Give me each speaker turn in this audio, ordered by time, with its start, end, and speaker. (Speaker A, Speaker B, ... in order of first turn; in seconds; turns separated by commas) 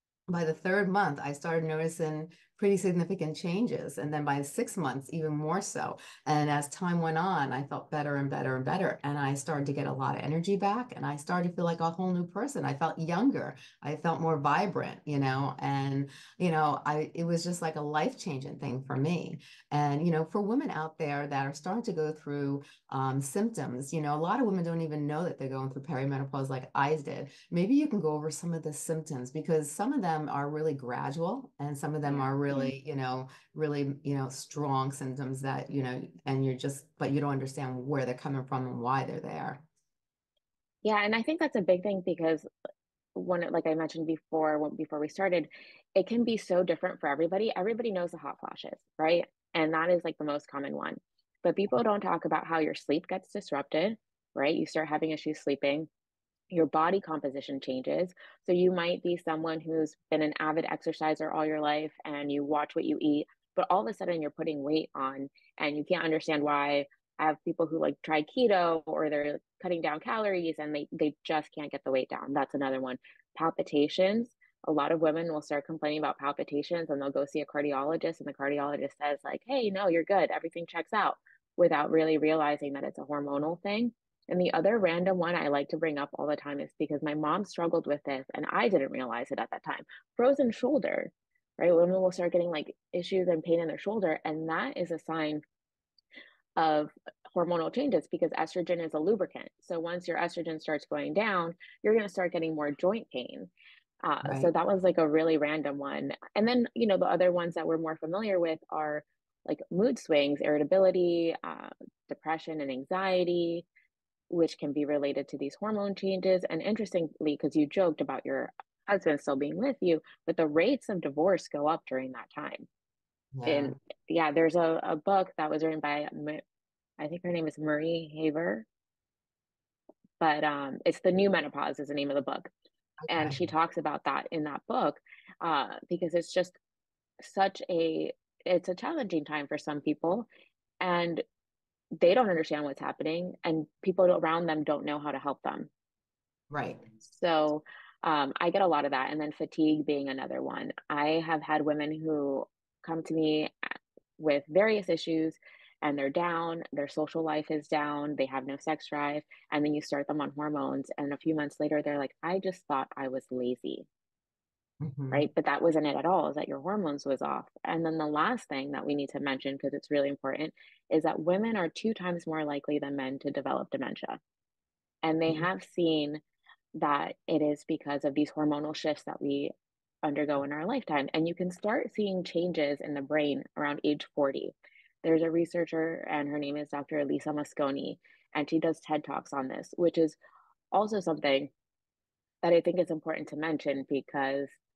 Speaker A: 0.3-39.6, Speaker B: 32.0-32.7, Speaker B: 40.8-42.5, Speaker B: 43.1-55.9, Speaker B: 56.5-95.4, Speaker B: 96.5-103.5, Speaker B: 104.0-113.7, Speaker A: 104.2-104.5, Speaker B: 114.3-122.7, Speaker A: 123.3-123.8, Speaker B: 123.5-126.4, Speaker B: 127.0-128.7, Speaker B: 130.2-132.5, Speaker A: 133.1-133.4, Speaker B: 133.1-136.6, Speaker B: 137.2-140.3, Speaker B: 140.8-141.2, Speaker B: 142.0-145.7, Speaker A: 146.5-146.8, Speaker B: 147.1-153.5, Speaker B: 154.2-163.9, Speaker A: 164.8-165.3, Speaker B: 165.1-174.2, Speaker B: 175.0-176.2, Speaker B: 176.8-179.5, Speaker B: 180.0-190.2, Speaker B: 190.7-191.5, Speaker B: 192.4-194.5